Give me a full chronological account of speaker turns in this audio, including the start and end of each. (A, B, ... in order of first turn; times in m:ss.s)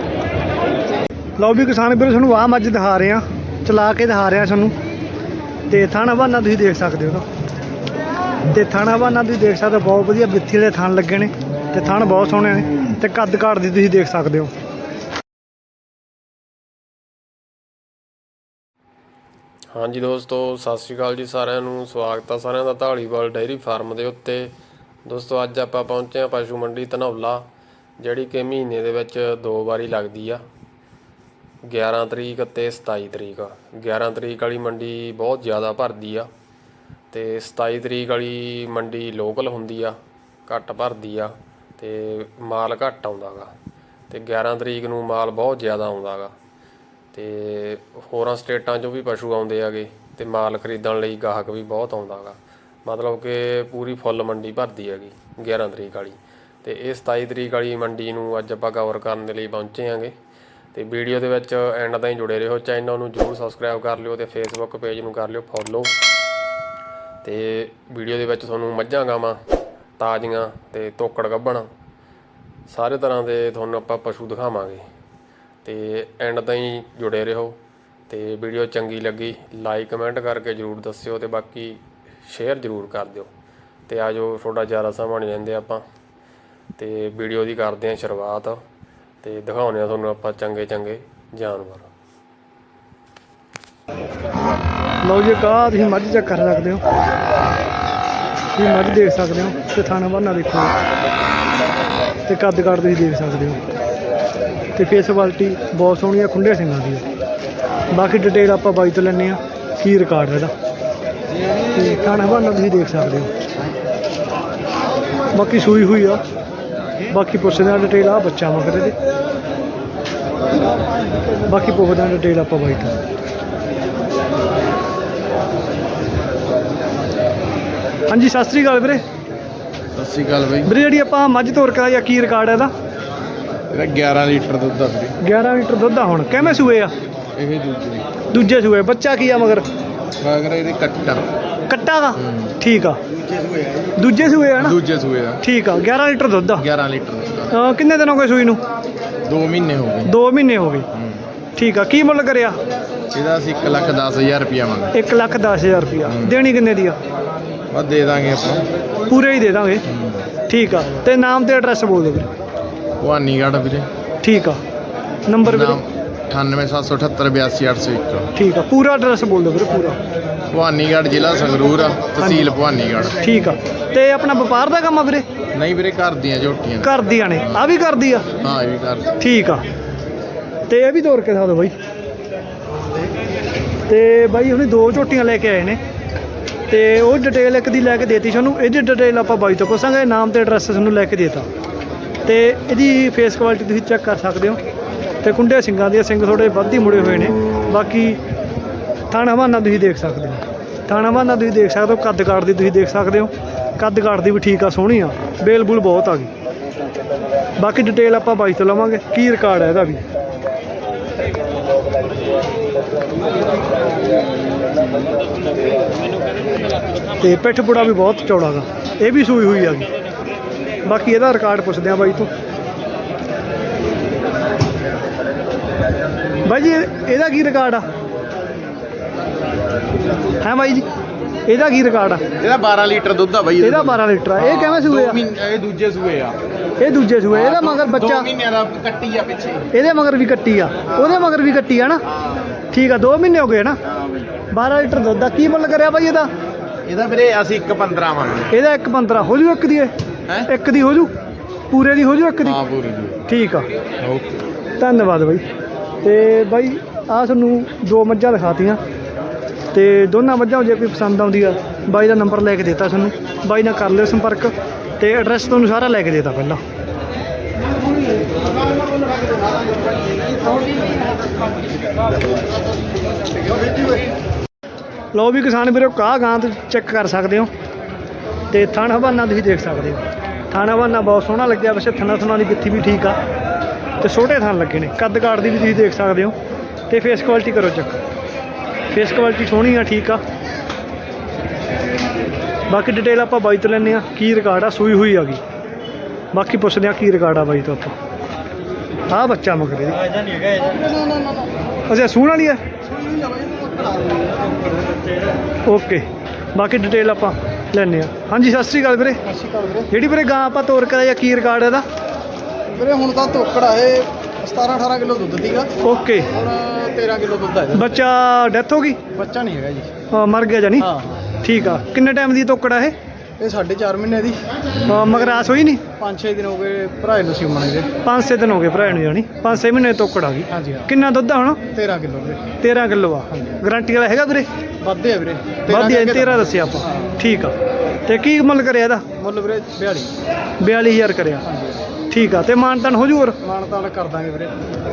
0:01.4-0:04.7 A
0:05.7-0:07.2 A
0:08.5-0:14.5 A
0:19.7-0:24.5 B
0:25.0-0:27.5 B
0:28.0-0:30.4 B
0:31.7-0:36.3 B
0:37.1-0:40.0 B
0:40.5-0:43.5 B
0:44.1-0:46.3 B
0:47.1-1:00.2 B
1:00.7-1:05.9 B
1:07.2-1:09.4 B
1:10.0-1:11.7 B
1:12.7-1:14.8 B
1:15.6-1:17.6 B
1:18.1-1:23.3 B
1:23.9-1:25.8 B
1:26.8-1:28.6 B
1:29.2-1:31.9 B
1:35.0-1:36.8 A
1:38.6-1:40.8 A
1:42.3-1:43.6 A
1:44.8-1:47.0 A
1:47.9-1:50.5 A
1:51.7-1:53.3 A
1:55.4-1:56.2 A
1:57.1-1:59.0 A
2:01.5-2:03.0 A
2:08.1-2:09.0 A
2:10.0-2:10.7 C
2:10.6-2:12.7 A
2:13.7-2:15.2 C
2:15.2-2:16.9 A
2:17.4-2:18.0 C
2:18.3-2:19.6 A
2:20.2-2:21.3 C
2:21.7-2:23.0 A
2:22.2-2:22.5 C
2:24.0-2:24.8 A
2:24.6-2:25.4 C
2:25.4-2:26.7 A
2:26.6-2:27.5 C
2:27.5-2:28.6 A
2:29.3-2:30.1 C
2:30.0-2:30.9 A
2:30.9-2:31.2 C
2:31.6-2:32.6 A
2:33.1-2:34.9 C
2:34.9-2:37.0 A
2:36.1-2:36.4 C
2:37.7-2:38.7 C
2:39.1-2:39.8 A
2:39.9-2:40.3 C
2:40.5-2:42.3 A
2:43.0-2:43.9 C
2:44.2-2:44.6 A
2:45.3-2:45.8 A
2:45.4-2:48.3 C
2:48.4-2:50.0 A
2:50.5-2:53.2 C
2:52.2-2:52.6 A
2:53.2-2:55.2 A
2:55.5-2:57.7 C
2:56.8-2:58.3 A
2:58.4-2:59.1 C
2:59.2-2:59.6 A
3:00.7-3:01.8 A
3:03.9-3:05.8 A
3:06.7-3:11.5 A
3:12.3-3:14.6 A
3:15.2-3:18.2 A
3:19.1-3:26.3 A
3:27.6-3:30.0 A
3:37.2-3:39.9 A
3:40.8-3:42.3 A
3:46.4-3:47.8 A
3:50.4-3:50.9 A
3:51.5-3:52.2 A
3:52.4-3:56.4 C
3:53.6-3:55.2 A
3:56.8-3:58.3 A
3:57.3-3:59.7 C
3:59.7-4:02.0 A
4:00.9-4:01.2 C
4:02.7-4:03.8 A
4:04.0-4:04.2 C
4:04.5-4:06.3 A
4:06.9-4:08.5 C
4:08.5-4:09.9 A
4:10.5-4:11.1 A
4:11.7-4:12.6 A
4:12.4-4:13.2 C
4:13.3-4:13.7 A
4:14.0-4:14.4 C
4:14.8-4:15.4 A
4:16.0-4:18.8 A
4:19.7-4:26.6 A
4:35.1-4:37.5 A
4:38.5-4:43.2 A
4:44.0-4:46.4 A
4:46.9-4:48.0 A
4:48.9-4:50.2 A
4:52.7-4:55.4 A
4:56.3-4:57.9 A
4:59.1-5:00.0 A
5:00.6-5:01.5 D
5:01.9-5:02.6 A
5:02.9-5:04.6 D
5:05.7-5:09.2 A
5:09.3-5:09.9 D
5:09.9-5:11.8 A
5:12.7-5:15.7 D
5:15.8-5:16.3 A
5:16.3-5:18.0 D
5:17.7-5:19.0 A
5:19.2-5:19.9 D
5:20.1-5:20.9 A
5:20.8-5:21.2 D
5:21.4-5:22.9 A
5:23.4-5:24.4 D
5:24.8-5:25.8 A
5:26.0-5:27.9 D
5:28.0-5:31.6 A
5:30.5-5:30.9 D
5:31.7-5:32.5 D
5:32.6-5:34.5 A
5:34.8-5:37.1 D
5:35.7-5:37.5 A
5:38.1-5:39.1 A
5:39.2-5:40.1 D
5:40.6-5:41.4 A
5:41.4-5:41.8 D
5:42.1-5:43.4 A
5:43.4-5:44.6 D